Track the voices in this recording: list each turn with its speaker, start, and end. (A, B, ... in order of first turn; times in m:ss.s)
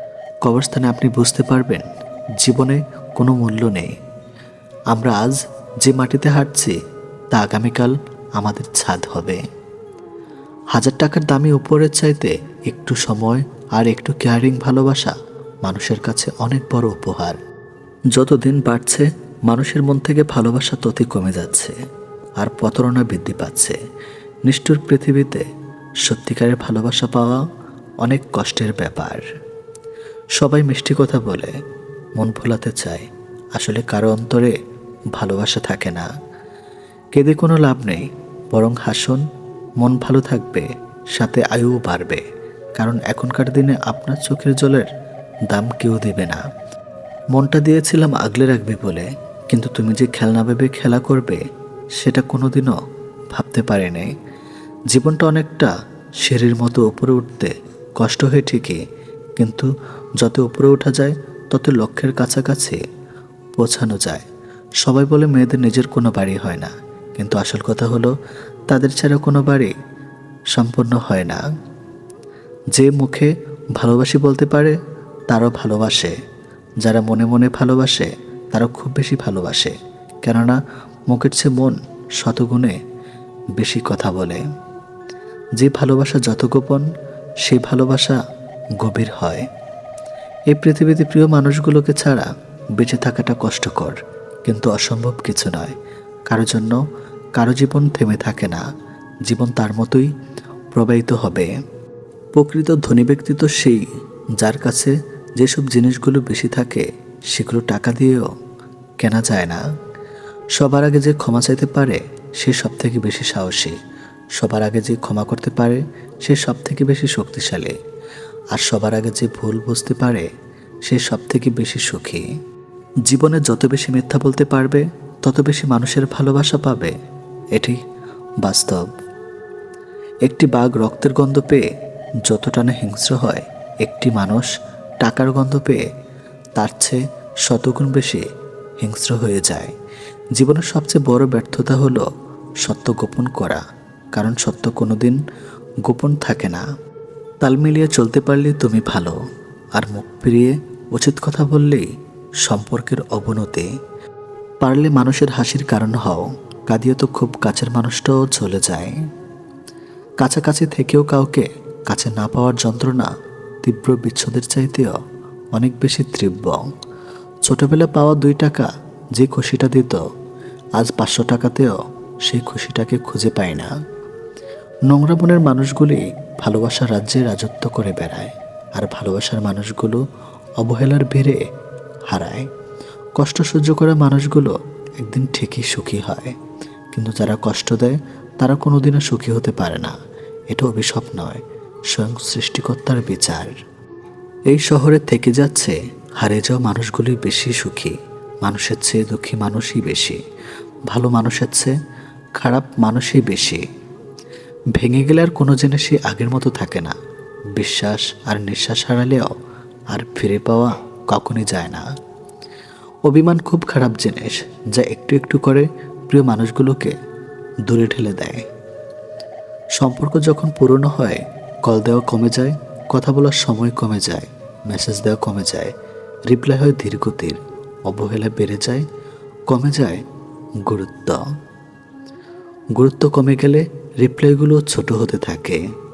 0:00.4-0:01.9 A
0:02.4-0:03.9 A
0:04.9-0:06.8 A
0:07.3-0:09.4 A
0:10.7-0:17.4 A
0:18.1-0:21.8 A
0:22.4-0:23.8 A
0:24.5-0:25.5 A
0:26.0-0:27.5 A
0:28.0-0:29.2 A
0:30.4-0:31.6 A
0:32.2-0:34.6 A
0:35.2-0:36.1 A
0:37.1-0:39.3 A
0:39.8-0:42.2 A
0:42.8-0:44.9 A
0:45.5-0:46.4 A
0:47.3-0:51.4 A
0:52.0-0:52.8 A
0:53.3-0:54.1 A
0:54.9-0:55.7 A
0:56.2-0:58.8 A
0:59.4-1:02.8 A
1:03.6-1:04.2 A
1:04.8-1:08.1 A
1:08.7-1:09.7 A
1:10.5-1:11.4 A
1:12.7-1:14.8 A
1:15.3-1:16.2 A
1:16.8-1:22.8 A
1:23.6-1:24.4 A
1:25.6-1:26.9 A
1:27.4-1:28.2 A
1:28.8-1:29.5 A
1:30.5-1:35.8 A
1:36.3-1:36.8 A
1:37.4-1:38.6 A
1:39.3-1:40.1 A
1:40.7-1:41.5 A
1:42.4-1:43.8 A
1:44.4-1:48.3 A
1:49.0-1:49.6 A
1:50.6-1:53.8 A
1:54.4-1:57.8 A
1:58.5-2:00.3 A
2:00.9-2:02.3 A
2:03.1-2:07.0 A
2:08.4-2:08.9 A
2:10.2-2:11.7 A
2:12.2-2:15.8 A
2:16.6-2:18.2 A
2:18.8-2:19.7 A
2:20.4-2:22.1 A
2:22.6-2:23.6 A
2:24.2-2:25.2 A
2:25.8-2:26.6 A
2:27.4-2:29.2 A
2:29.8-2:31.9 A
2:32.4-2:33.7 A
2:34.6-2:39.0 A
2:40.2-2:43.1 A
2:43.6-2:45.0 A
2:45.5-2:46.6 A
2:47.5-2:50.0 A
2:50.8-2:53.7 A
2:54.9-3:00.0 A
3:00.6-3:01.4 A
3:02.1-3:02.5 A
3:03.2-3:06.4 A
3:06.9-3:10.0 A
3:10.5-3:13.6 A
3:14.5-3:20.2 A
3:20.9-3:21.8 A
3:22.4-3:23.6 A
3:24.8-3:27.0 A
3:27.6-3:29.3 A
3:29.9-3:31.9 A
3:33.1-3:37.0 A
3:37.7-3:38.4 A
3:39.8-3:45.7 A
3:46.3-3:48.9 A
3:49.5-3:50.0 A
3:50.6-3:51.2 A
3:52.8-3:55.6 A